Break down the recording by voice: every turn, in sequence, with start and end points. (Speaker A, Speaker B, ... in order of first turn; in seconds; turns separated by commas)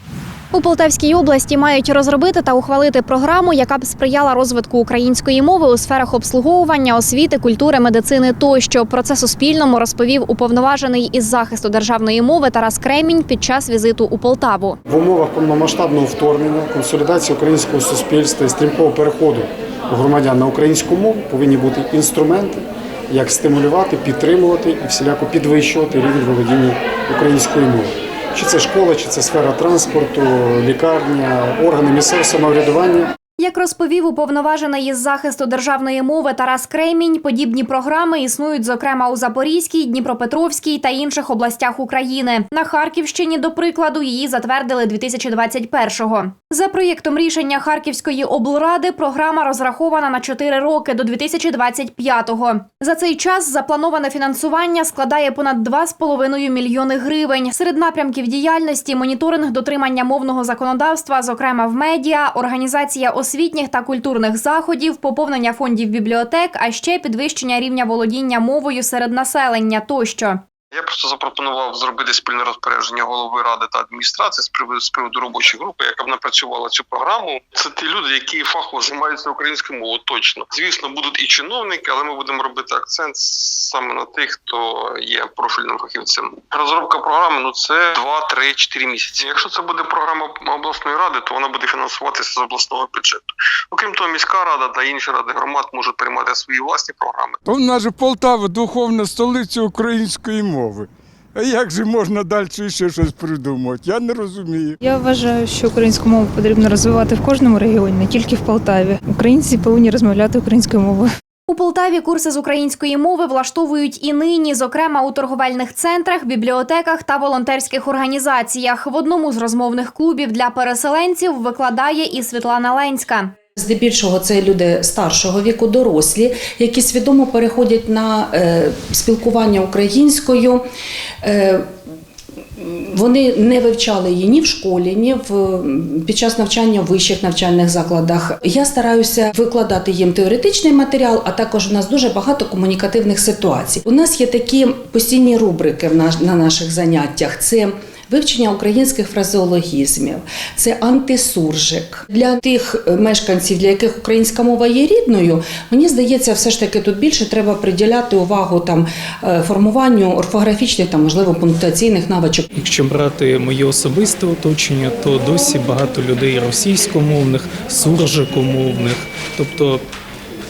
Speaker A: 0.5-14.8, Speaker B: 14.9-33.1, Speaker A: 33.4-70.4, Speaker C: 70.7-93.2, Speaker C: 93.7-97.4, Speaker D: 97.5-104.8, Speaker E: 104.8-111.1, Speaker A: 111.5-123.3, Speaker F: 123.6-130.7, Speaker F: 131.2-131.7, Speaker F: 132.6-162.5, Speaker G: 162.5-169.8